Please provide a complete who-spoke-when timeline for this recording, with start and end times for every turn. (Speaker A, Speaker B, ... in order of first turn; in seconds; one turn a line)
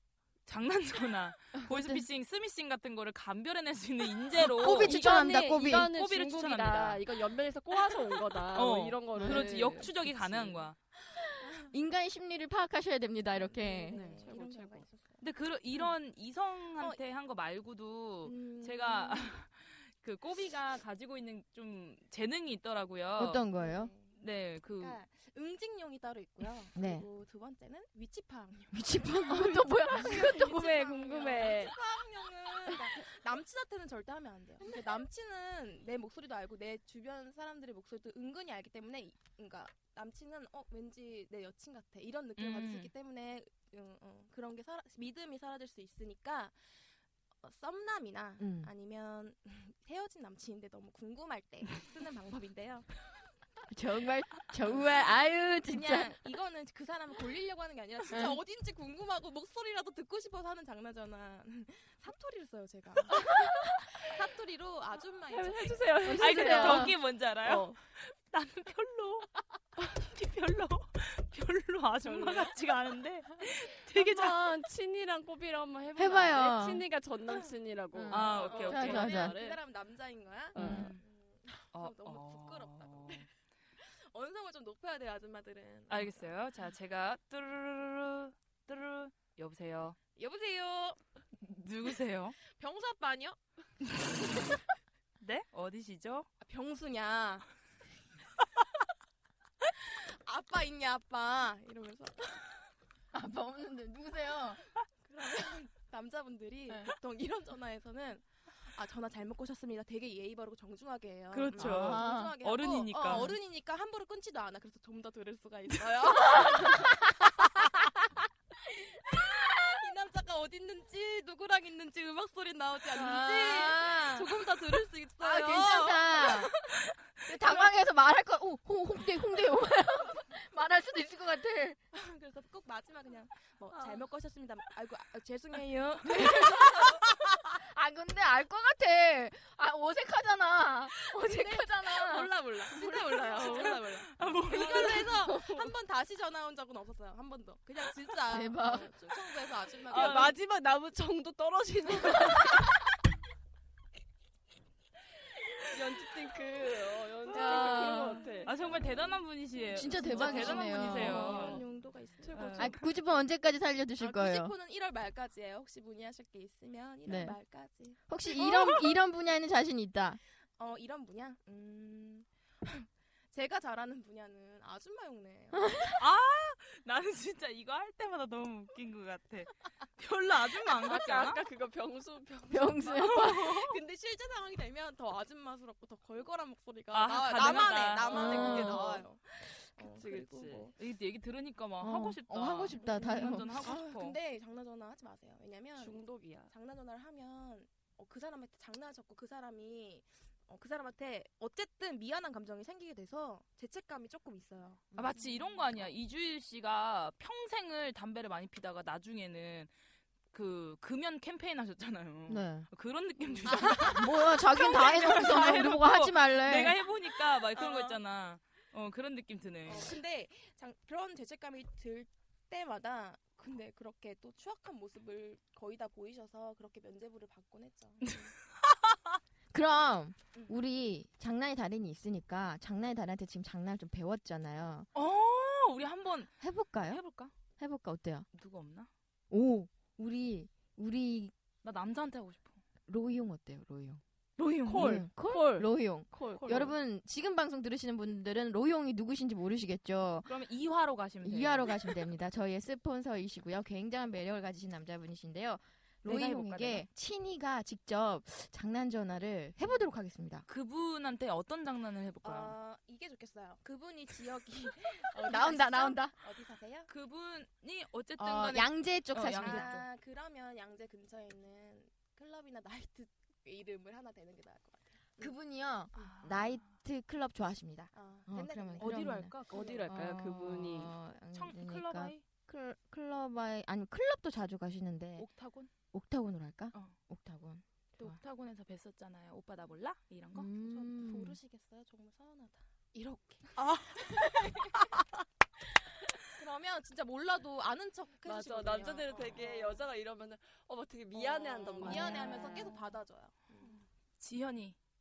Speaker A: 0.5-5.0
Speaker B: 1.6-2.0
Speaker B: 4.4-5.9
Speaker C: 4.7-10.6
Speaker A: 5.6-7.0
Speaker A: 8.5-10.8
Speaker B: 9.2-9.5
Speaker B: 11.6-14.1
Speaker D: 13.4-15.2
Speaker C: 13.9-14.9
Speaker A: 15.2-23.4
Speaker D: 18.2-19.4
Speaker B: 23.2-23.9
Speaker D: 23.6-24.2
Speaker A: 24.2-25.0
Speaker D: 24.7-46.6
Speaker B: 26.8-27.1
Speaker B: 28.7-30.8
Speaker C: 30.1-31.8
Speaker A: 42.4-42.9
Speaker D: 47.4-53.0
Speaker B: 48.4-48.7
Speaker B: 53.7-56.1
Speaker D: 55.7-66.8
Speaker B: 58.1-58.4
Speaker C: 65.3-66.9
Speaker B: 66.1-67.0
Speaker A: 66.2-69.3
Speaker C: 67.5-67.8
Speaker A: 69.8-74.4
Speaker C: 73.9-79.6
Speaker B: 76.0-76.9
Speaker B: 77.9-79.4
Speaker A: 78.1-79.1
Speaker D: 78.1-83.3
Speaker C: 80.5-80.9
Speaker B: 80.6-80.9
Speaker A: 80.6-81.0
Speaker A: 81.7-83.3
Speaker D: 83.8-86.3
Speaker A: 85.9-90.0
Speaker D: 90.2-91.0
Speaker A: 91.4-92.4
Speaker D: 92.5-93.4
Speaker A: 95.2-96.3
Speaker D: 96.4-97.5
Speaker D: 99.8-102.5
Speaker B: 103.1-104.7
Speaker D: 105.0-117.5
Speaker B: 106.7-106.9
Speaker A: 111.3-113.3
Speaker B: 111.5-112.3
Speaker B: 113.1-113.3
Speaker B: 116.2-117.1
Speaker D: 119.0-127.7
Speaker B: 119.1-119.7
Speaker B: 122.9-124.3
Speaker B: 125.2-126.5
Speaker B: 127.3-131.8
Speaker D: 131.9-137.1
Speaker C: 133.7-134.0
Speaker B: 136.1-143.0
Speaker D: 141.0-150.4
Speaker A: 143.4-145.1
Speaker C: 144.8-145.4
Speaker B: 144.9-145.6
Speaker B: 148.3-149.0
Speaker C: 149.9-152.7
Speaker A: 149.9-150.3
Speaker C: 155.7-158.5
Speaker B: 157.3-158.3
Speaker D: 157.3-162.8
Speaker A: 158.4-161.6
Speaker B: 159.7-161.6
Speaker C: 161.2-161.6
Speaker C: 162.2-162.7
Speaker A: 162.3-162.8
Speaker B: 162.6-164.5
Speaker D: 164.0-168.0
Speaker B: 167.1-167.4
Speaker B: 168.1-170.2
Speaker A: 168.4-168.8
Speaker D: 170.6-175.9
Speaker B: 175.6-176.0
Speaker A: 175.9-181.4
Speaker C: 180.8-182.8
Speaker B: 182.5-183.7
Speaker D: 182.9-190.8
Speaker A: 183.0-183.5
Speaker A: 186.9-188.9
Speaker B: 188.1-189.0
Speaker C: 189.8-190.7
Speaker A: 190.8-194.2
Speaker B: 191.8-193.6
Speaker D: 192.8-204.9
Speaker C: 195.8-196.5
Speaker A: 205.0-209.7
Speaker A: 210.3-219.9
Speaker B: 212.3-212.7
Speaker D: 213.3-214.0
Speaker B: 213.5-216.8
Speaker D: 217.5-218.0
Speaker D: 219.7-228.3
Speaker A: 228.6-229.0
Speaker B: 229.5-234.9
Speaker D: 230.3-230.6
Speaker A: 234.9-237.3
Speaker B: 236.4-237.0
Speaker B: 237.6-238.3
Speaker A: 238.3-238.9
Speaker B: 239.3-241.3
Speaker A: 241.6-242.6
Speaker B: 242.9-244.0
Speaker A: 244.4-245.1
Speaker B: 244.7-250.3
Speaker C: 244.7-246.7
Speaker A: 250.3-251.9
Speaker B: 251.2-260.4
Speaker A: 256.0-256.9
Speaker A: 260.5-262.6
Speaker D: 262.2-266.9
Speaker B: 265.1-266.1
Speaker A: 266.9-269.9
Speaker B: 268.2-269.8
Speaker D: 269.3-275.3
Speaker B: 275.2-279.4
Speaker A: 275.9-276.8
Speaker D: 277.9-279.8
Speaker A: 278.8-279.8
Speaker C: 279.5-280.9
Speaker B: 279.9-285.3
Speaker A: 281.3-282.2
Speaker A: 285.2-285.7
Speaker B: 285.9-288.2
Speaker A: 288.0-290.5
Speaker B: 290.4-291.4
Speaker D: 290.6-294.7
Speaker A: 293.6-293.9
Speaker D: 296.2-299.9
Speaker C: 298.2-302.5
Speaker D: 301.1-303.9
Speaker B: 301.8-302.8
Speaker A: 304.2-304.8